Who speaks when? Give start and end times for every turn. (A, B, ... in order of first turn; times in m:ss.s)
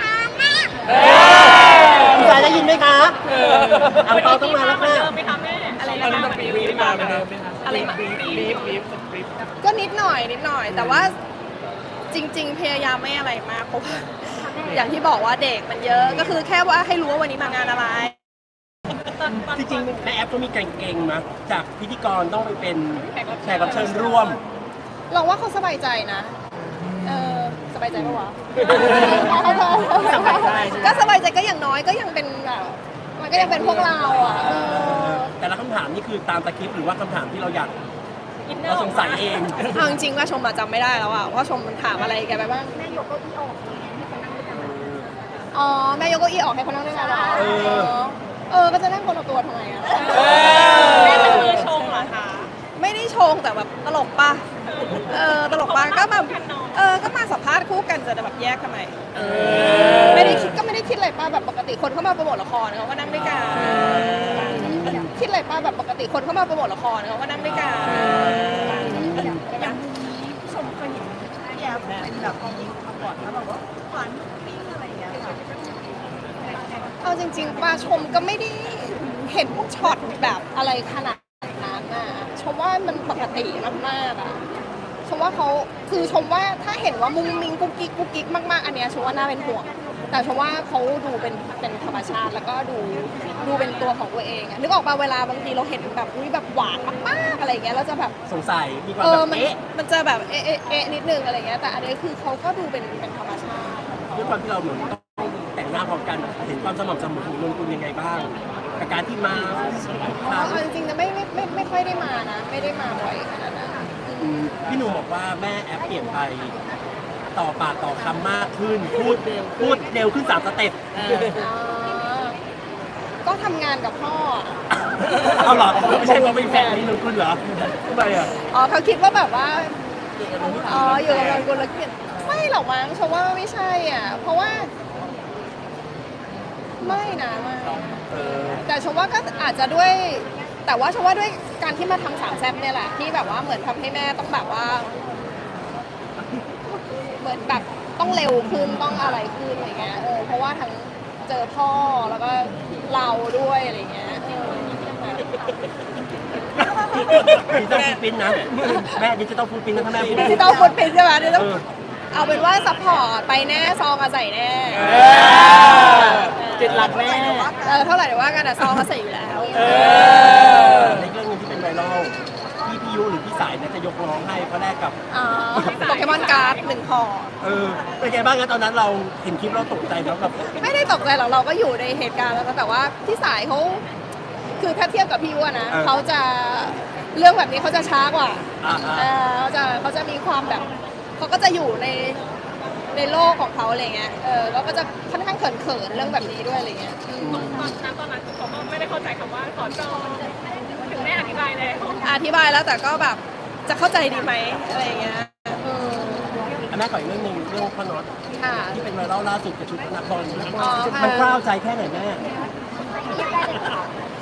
0:00.9-0:02.2 A
0:01.9-0:03.2 B
0:03.3-0:04.0 A
0:03.5-0:03.9 C
0:03.8-0:05.1 B
0:04.0-0:07.1 D
0:05.8-0:06.6 E
0:05.8-0:09.5 A
0:06.5-0:08.6 C
0:07.6-0:08.0 E
0:07.8-0:08.8 D
0:09.6-0:11.2 E
0:10.7-0:11.1 C
0:12.1-0:18.1 E
0:15.9-0:16.3 C
0:19.1-0:19.9 D
0:19.4-0:24.4 B
0:23.0-0:24.4 D
0:25.1-0:26.4 E
0:26.7-0:27.6 C
0:27.0-0:35.3 E
0:28.6-0:29.8 D
0:28.6-0:31.1 C
0:30.6-0:31.0 D
0:33.3-0:34.4 A
0:34.1-0:37.7 B
0:38.4-0:39.6 D
0:38.6-0:39.8 B
0:39.6-0:42.9 E
0:44.5-0:45.1 B
0:45.5-0:59.3 E
0:47.3-0:47.9 B
0:50.2-0:52.1 D
0:54.7-0:56.8 D
0:59.2-1:00.2 C
0:59.4-1:00.0 A
0:59.9-1:09.9 E
1:03.3-1:04.8 C
1:04.5-1:05.1 B
1:08.0-1:09.1 C
1:08.9-1:09.2 B
1:11.8-1:12.2 C
1:17.0-1:24.4 E
1:25.0-1:38.2 E
1:38.3-1:39.6 B
1:39.0-1:44.2 E
1:44.1-1:50.6 B
1:49.5-1:50.2 C
1:50.2-1:54.4 E
1:54.2-1:56.5 B
1:57.3-2:00.9 B
1:59.1-1:59.8 C
2:00.9-2:01.4 C
2:01.3-2:02.4 E
2:03.2-2:04.6 E
2:05.1-2:06.9 C
2:05.2-2:08.3 B
2:08.4-2:09.8 E
2:10.4-2:11.3 C
2:10.4-2:14.7 E
2:10.7-2:11.4 A
2:16.8-2:24.9 E
2:18.1-2:18.6 B
2:27.2-2:35.4 E
2:36.7-2:40.6 B
2:37.3-2:38.0 A
2:38.6-2:39.0 E
2:39.9-2:40.4 C
2:40.1-2:41.5 E
2:41.3-2:41.6 B
2:42.1-2:45.0 E
2:44.7-2:45.1 B
2:44.7-2:47.5 C
2:45.0-2:46.2 A
2:46.2-2:50.5 E
2:49.5-2:50.7 C
2:50.6-2:55.0 B
2:55.1-2:57.3 E
2:55.5-2:55.8 B
2:55.6-2:56.7 D
2:57.4-3:00.5 B
3:00.5-3:03.8 E
3:04.6-3:12.2 E
3:05.7-3:06.0 B
3:08.6-3:09.1 B
3:12.9-3:17.6 E
3:17.2-3:17.8 B
3:17.4-3:22.0 D
3:22.0-3:26.4 E
3:26.7-3:32.2 B
3:28.4-3:28.8 E
3:30.6-3:31.4 E